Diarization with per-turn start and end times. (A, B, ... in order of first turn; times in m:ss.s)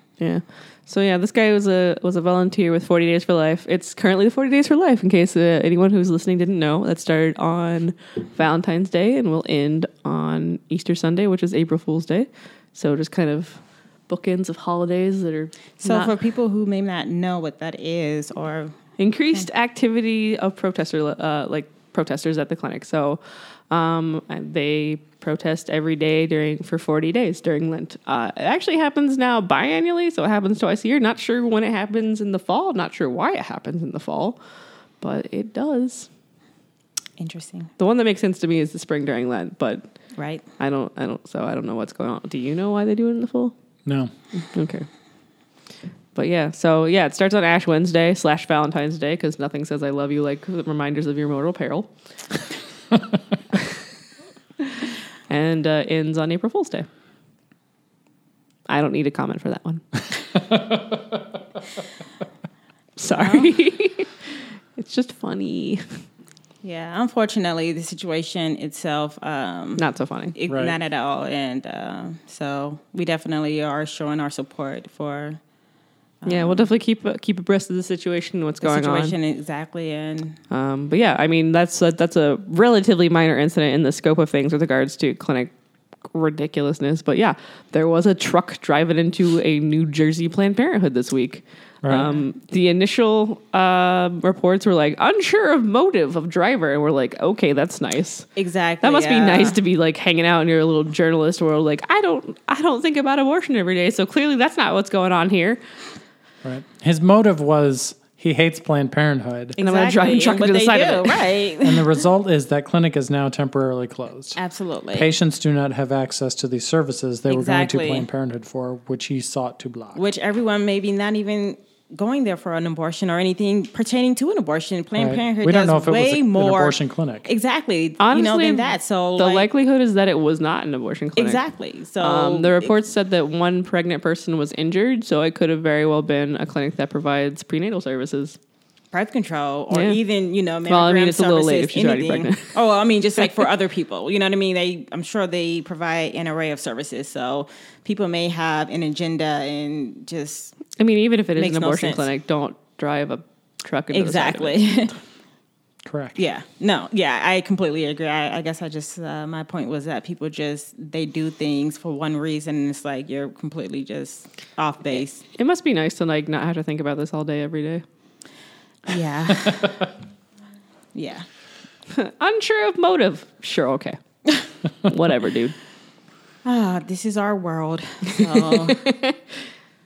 0:00.2-0:16.1 A
0:15.8-0:18.7 B
0:19.0-0:34.4 A
0:35.0-0:36.1 A
0:37.2-0:37.7 B
0:37.8-0:39.9 A
0:40.2-0:40.4 B
0:40.6-0:43.5 A
0:43.8-0:44.1 C
0:44.5-0:44.9 A
0:46.1-0:51.9 A
0:54.6-0:56.9 A
0:58.7-1:00.0 A
1:00.3-1:01.2 C
1:03.0-1:04.2 A
1:03.1-1:03.5 B
1:04.8-1:06.0 A
1:06.6-1:09.8 B
1:09.8-1:10.4 A
1:10.3-1:15.4 B
1:10.5-1:10.8 C
1:16.2-1:16.7 B
1:16.2-1:19.2 A
1:18.6-1:20.4 B
1:20.5-1:25.5 A
1:26.0-1:38.3 A
1:31.8-1:32.1 C
1:38.4-1:39.6 B
1:38.8-1:45.6 A
1:46.4-1:49.6 C
1:49.6-1:52.0 B
1:49.6-1:51.4 A
1:51.6-1:54.4 C
1:54.4-1:55.1 B
1:54.9-2:00.0 C
1:57.3-1:58.1 B
1:59.9-2:09.4 B
2:05.0-2:07.3 C
2:08.0-2:11.4 A
2:11.2-2:12.7 B
2:12.0-2:18.4 A
2:18.9-2:30.6 B
2:19.7-2:20.0 A
2:20.6-2:22.5 A
2:30.8-2:34.9 A
2:31.4-2:32.1 B
2:33.9-2:34.9 B
2:35.8-2:36.2 C
2:36.2-2:45.2 B
2:45.4-2:47.8 A
2:48.8-2:49.8 B
2:50.9-2:51.2 B
2:51.9-2:54.0 A
2:54.8-2:55.6 A
2:56.4-2:58.9 B
2:58.3-2:59.2 A